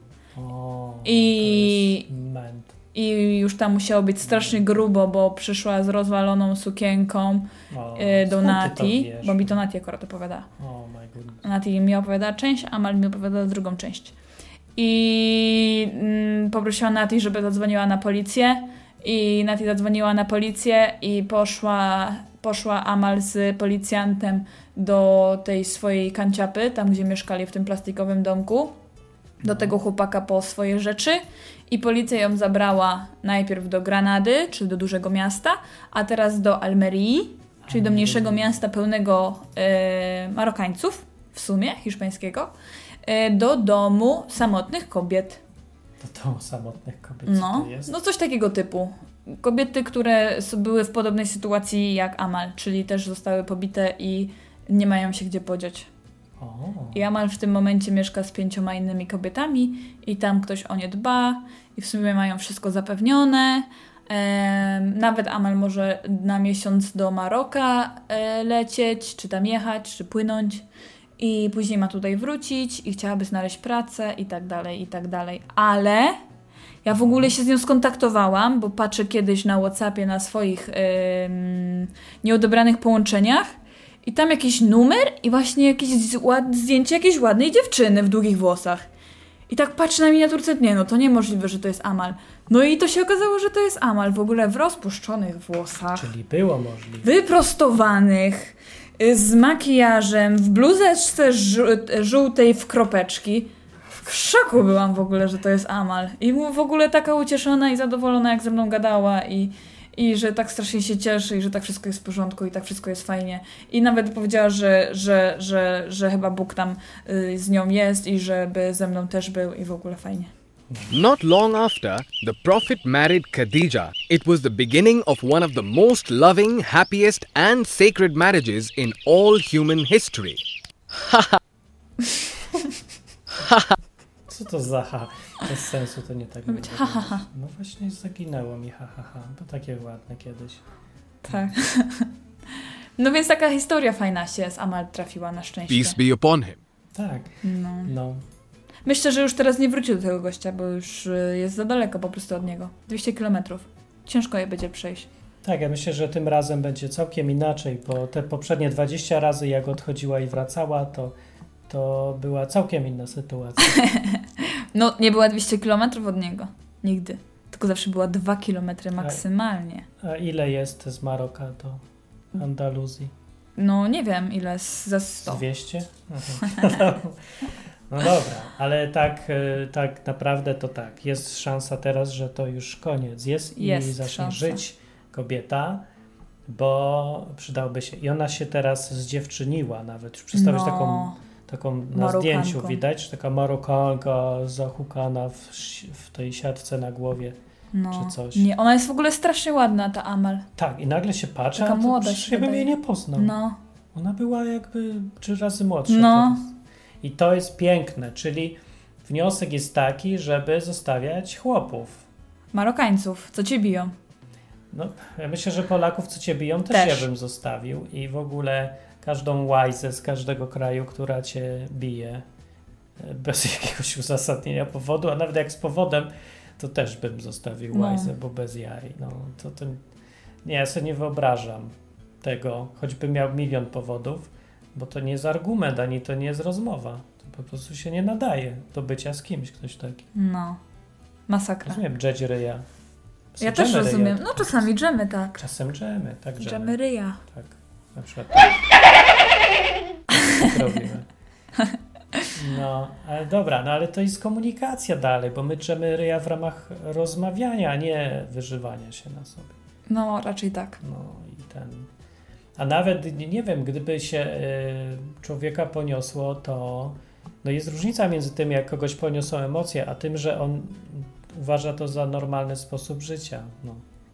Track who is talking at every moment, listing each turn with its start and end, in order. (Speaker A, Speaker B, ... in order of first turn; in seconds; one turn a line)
Speaker A: 0.4-2.7
Speaker B: 1.0-2.1
Speaker B: 2.9-10.5
Speaker A: 4.2-4.7
Speaker A: 7.7-9.6
Speaker A: 10.6-11.4
Speaker B: 11.4-14.2
Speaker B: 14.8-28.8
Speaker B: 29.4-42.5
Speaker A: 29.4-29.7
Speaker A: 37.6-38.6
Speaker B: 43.0-45.4
Speaker A: 46.0-47.9
Speaker B: 47.3-55.9
Speaker A: 56.4-57.1
Speaker B: 56.9-70.7
Speaker B: 71.2-76.2
Speaker B: 76.8-88.9
Speaker A: 76.9-77.3
Speaker B: 89.5-96.0
Speaker A: 95.9-97.1
Speaker B: 97.0-120.3
Speaker C: 120.9-130.4
Speaker A: 134.3-140.6
Speaker B: 136.5-137.2
Speaker B: 141.2-142.1
Speaker B: 143.0-146.0
Speaker C: 145.7-146.6
Speaker A: 146.9-148.2
Speaker B: 147.4-147.9
Speaker B: 148.8-155.1
Speaker A: 155.4-161.2
Speaker A: 161.7-163.8
Speaker B: 163.6-169.9
Speaker A: 169.0-169.2
Speaker A: 170.0-171.8
Speaker A: 172.4-173.1
Speaker B: 173.6-175.4
Speaker A: 175.2-185.8
Speaker B: 183.6-184.6
Speaker A: 186.5-197.4
Speaker B: 190.3-191.2
Speaker B: 191.9-192.8
Speaker B: 197.7-200.5
Speaker A: 197.9-198.5
Speaker A: 200.6-203.3
Speaker B: 201.6-203.6
Speaker A: 203.9-206.4
Speaker B: 205.9-206.4
Speaker A: 207.0-212.0
Speaker B: 212.5-213.9
Speaker A: 214.7-222.2
Speaker B: 216.7-217.1
Speaker A: 223.0-229.8
Speaker B: 227.7-228.1
Speaker A: 230.4-240.1
Speaker B: 240.1-240.6
Speaker B: 241.3-241.8
Speaker A: 241.7-242.7
Speaker A: 243.4-244.7
Speaker B: 243.4-245.4
Speaker A: 245.3-248.6
Speaker B: 246.4-247.2
Speaker A: 250.1-251.1
Speaker A: 252.3-259.6
Speaker B: 259.9-260.8
Speaker A: 260.8-261.9
Speaker A: 262.6-273.8